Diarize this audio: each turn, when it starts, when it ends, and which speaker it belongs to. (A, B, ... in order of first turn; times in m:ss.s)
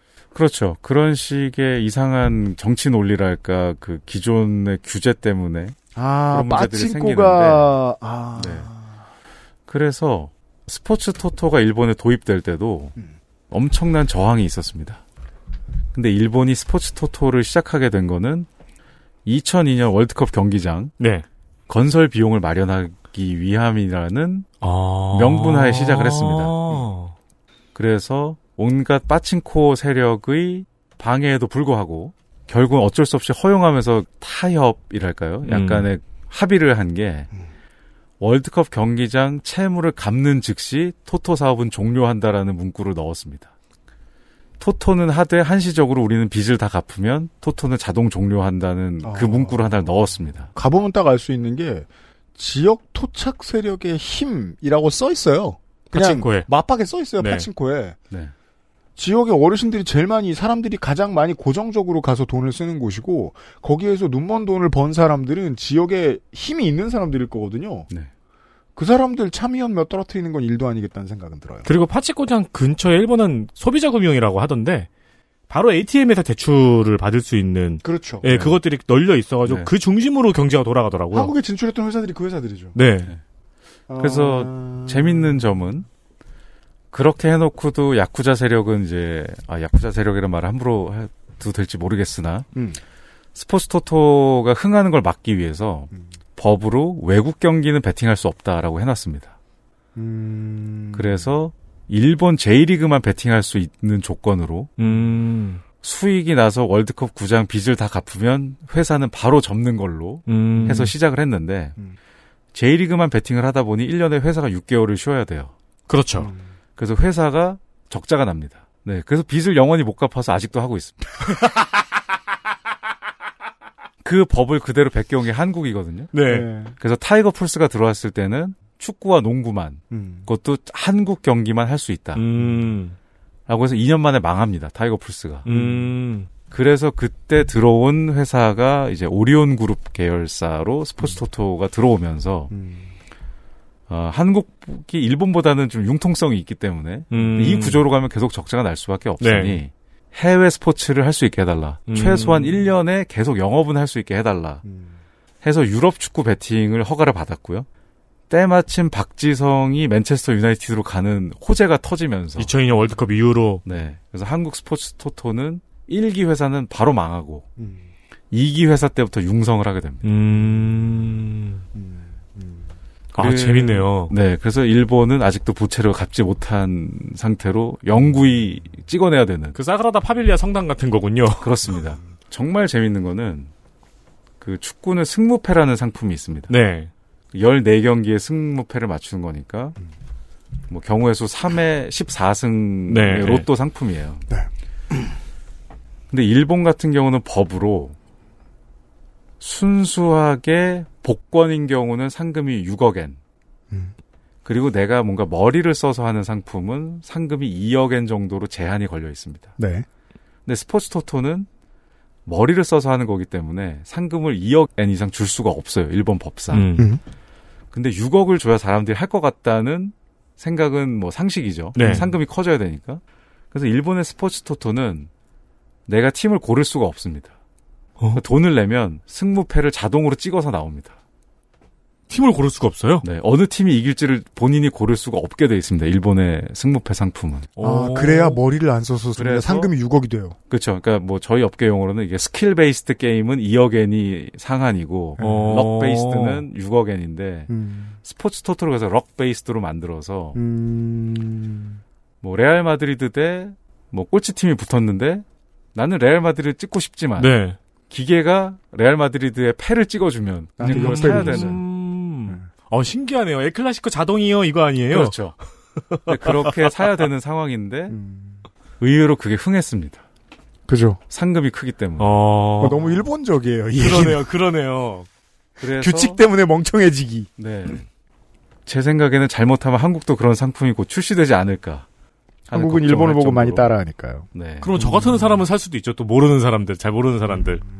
0:00.3-0:05.8 A
0:05.9-0:09.0 B
0:06.3-0:07.8 A
0:08.4-0:08.7 A
0:09.7-0:12.9 A
0:13.5-0:15.0 A
0:15.9-0:18.5 A
0:19.2-0:21.0 A
0:21.0-0:21.2 C
0:21.7-0:24.5 A
0:24.6-0:27.1 C
0:25.1-0:26.8 A
0:27.7-0:37.3 A
0:35.4-0:35.9 C
0:38.2-0:43.5 A
0:44.6-0:50.5 A
0:49.0-0:49.6 B
0:50.5-0:58.0 B
0:55.9-0:56.5 C
0:57.2-0:57.5 C
0:59.0-1:07.9 B
1:08.8-1:11.7 B
1:11.6-1:14.9 C
1:15.5-1:21.3 C
1:17.8-1:18.2 B
1:18.2-1:18.6 A
1:19.4-1:19.7 A
1:21.1-1:22.8 B
1:22.7-1:23.1 C
1:23.9-1:25.4 B
1:24.0-1:25.9 A
1:26.9-1:32.5 A
1:32.5-1:32.8 B
1:33.3-1:39.3 A
1:39.9-1:41.3 B
1:40.9-1:44.7 A
1:44.8-1:45.6 C
1:45.8-1:51.8 A
1:50.3-1:50.9 C
1:52.5-1:55.5 A
1:55.9-1:56.3 C
1:56.2-1:56.4 B
1:56.8-2:01.0 A
2:04.0-2:06.1 A
2:06.1-2:06.5 C
2:06.3-2:06.7 B
2:06.8-2:12.2 A
2:09.9-2:10.3 B
2:12.1-2:12.9 C
2:13.5-2:15.4 A
2:15.4-2:16.3 C
2:15.5-2:16.0 B
2:16.5-2:22.5 A
2:22.5-2:22.9 B
2:23.9-2:34.6 A
2:27.1-2:27.8 C
2:29.2-2:29.6 C
2:31.9-2:32.6 C
2:34.6-2:35.0 B
2:35.4-2:37.7 A
2:38.3-2:42.5 A
2:42.4-2:43.6 C
2:43.6-2:47.5 A
2:47.6-2:47.9 B
2:48.3-2:50.1 A
2:50.0-2:51.6 C
2:51.7-2:52.7 B
2:53.1-2:54.1 C
2:53.2-2:59.6 A
2:59.5-3:01.5 C
3:01.4-3:03.5 A
3:04.4-3:06.5 A
3:06.5-3:06.9 C
3:07.3-3:09.8 A
3:10.7-3:14.2 A
3:12.9-3:13.5 C
3:14.3-3:15.1 B
3:16.1-3:18.0 A
3:19.4-3:23.2 A
3:24.4-3:29.5 A
3:29.6-3:29.8 B
3:30.4-3:31.5 A
3:32.2-3:36.7 A
3:36.5-3:36.9 C
3:37.7-3:45.1 A
3:41.7-3:42.2 C
3:45.9-3:47.3 A
3:48.1-3:51.0 A
3:52.1-3:53.0 C
3:53.0-3:57.5 A
3:57.6-3:58.4 C
3:57.6-4:00.4 B
3:59.2-3:59.7 A
4:00.5-4:07.5 A
4:05.2-4:05.6 B
4:05.2-4:06.4 C
4:07.5-4:08.0 B
4:08.0-4:10.4 A
4:10.3-4:11.8 B
4:12.2-4:17.3 A
4:17.2-4:17.6 C
4:17.9-4:21.6 A
4:20.6-4:21.6 B
4:20.6-4:25.4 C
4:24.9-4:25.4 A
4:25.9-4:26.6 C
4:26.0-4:28.0 A
4:27.9-4:28.4 B
4:28.8-4:30.0 A
4:30.7-4:31.0 B
4:31.1-4:32.8 A
4:32.0-4:32.9 C
4:32.6-4:34.2 B
4:33.8-4:35.1 C
4:35.6-4:36.2 A
4:35.7-4:37.3 B
4:37.4-4:37.8 A
4:38.6-4:41.8 A
4:42.5-4:43.7 A
4:42.5-4:45.3 B
4:44.3-4:44.7 A
4:44.6-4:47.6 C